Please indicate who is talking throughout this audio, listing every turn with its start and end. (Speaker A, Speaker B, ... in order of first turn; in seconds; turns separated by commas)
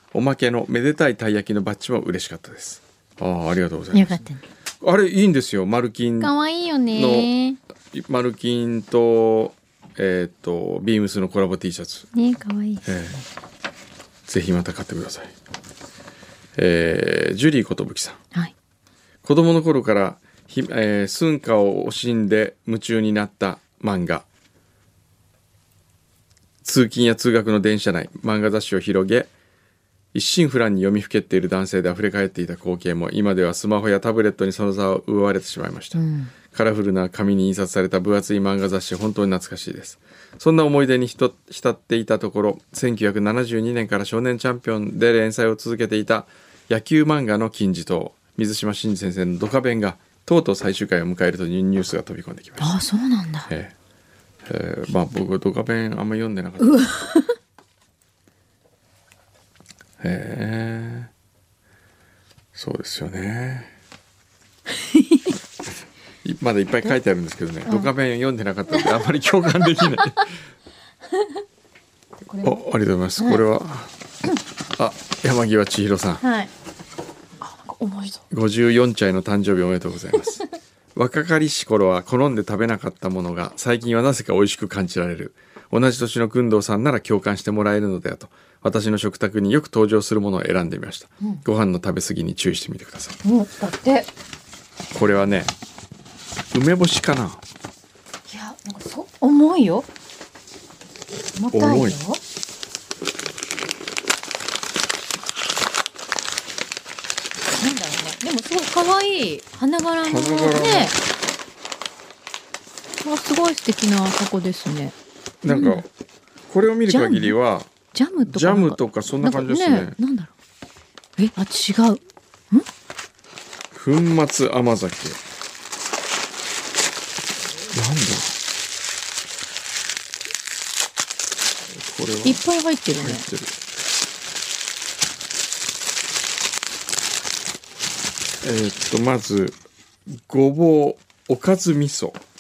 Speaker A: 0.1-4.2, Speaker B: 3.9-4.5, Speaker A: 4.8-6.3, Speaker B: 6.2-7.6, Speaker A: 6.9-7.3, Speaker A: 7.9-12.1, Speaker B: 12.1-13.2, Speaker A: 12.8-13.2, Speaker A: 14.3-15.3, Speaker A: 16.6-18.2, Speaker A: 19.2-24.3, Speaker A: 26.6-29.3, Speaker A: 30.1-36.0, Speaker B: 36.0-36.3, Speaker A: 36.5-52.7, Speaker B: 52.6-53.5, Speaker A: 53.5-53.8, Speaker A: 54.5-56.8, Speaker B: 56.6-57.3, Speaker A: 60.0-61.1, Speaker A: 62.5-63.7, Speaker B: 64.7-65.3, Speaker A: 66.2-70.3, Speaker B: 67.7-67.9, Speaker B: 69.8-70.2, Speaker B: 72.2-72.6, Speaker A: 72.4-73.9, Speaker B: 73.2-73.4, Speaker A: 74.8-76.2, Speaker B: 76.2-76.5, Speaker B: 77.4-78.2, Speaker A: 78.3-80.4, Speaker A: 81.0-93.2, Speaker B: 93.2-94.1, Speaker A: 94.9-95.5, Speaker A: 96.5-97.4, Speaker B: 98.3-99.9, Speaker B: 101.4-102.2, Speaker A: 101.5-102.0, Speaker B: 107.5-111.0, Speaker A: 110.0-111.0, Speaker B: 113.0-115.8, Speaker A: 115.4-115.9, Speaker A: 116.5-117.7, Speaker B: 116.9-117.4, Speaker B: 117.9-120.3, Speaker A: 118.3-120.0, Speaker B: 121.2-122.0, Speaker A: 123.7-125.2, Speaker A: 127.7-128.4, Speaker A: 131.7-132.4, Speaker B: 132.2-133.3, Speaker A: 133.0-133.6, Speaker A: 138.4-142.2